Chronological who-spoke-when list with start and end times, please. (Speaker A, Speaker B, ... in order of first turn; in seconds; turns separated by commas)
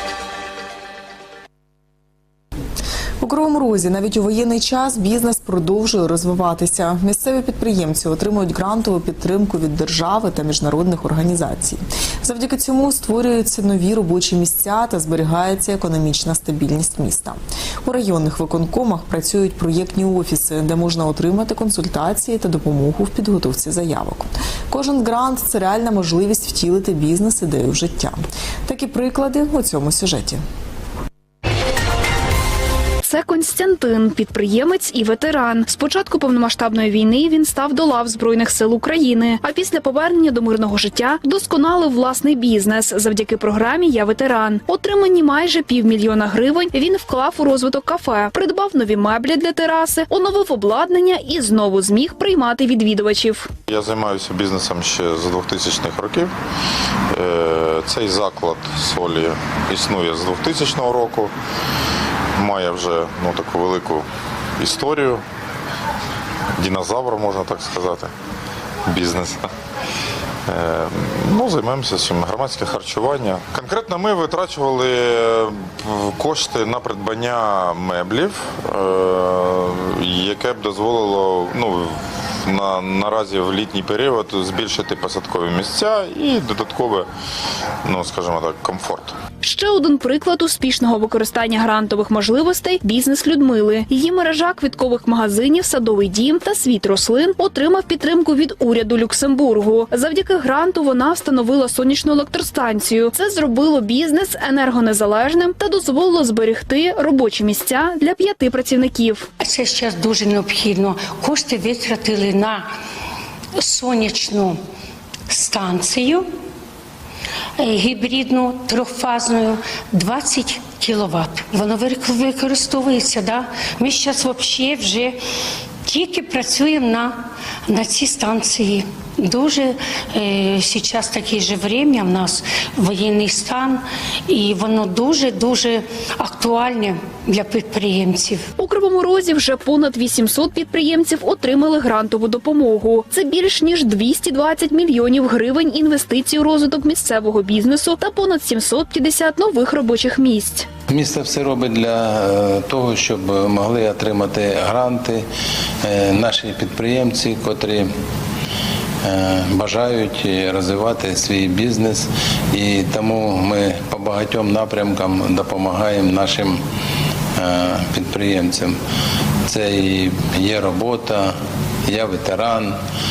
Speaker A: 3.2-30.4, Speaker B: 33.0-53.5, Speaker C: 53.7-56.3, Speaker C: 57.1-61.3, Speaker C: 62.4-64.0, Speaker C: 64.6-65.2, Speaker C: 66.6-68.1, Speaker C: 68.9-69.5, Speaker C: 70.5-87.1, Speaker C: 87.8-89.2, Speaker B: 89.4-109.3, Speaker D: 109.4-112.7, Speaker D: 113.6-114.6, Speaker D: 115.3-116.3, Speaker D: 117.6-125.2, Speaker D: 125.9-138.4, Speaker B: 138.6-150.7, Speaker E: 150.9-155.2, Speaker E: 155.8-157.9, Speaker E: 159.1-166.6, Speaker E: 167.4-168.8, Speaker E: 169.5-171.3, Speaker E: 171.9-172.8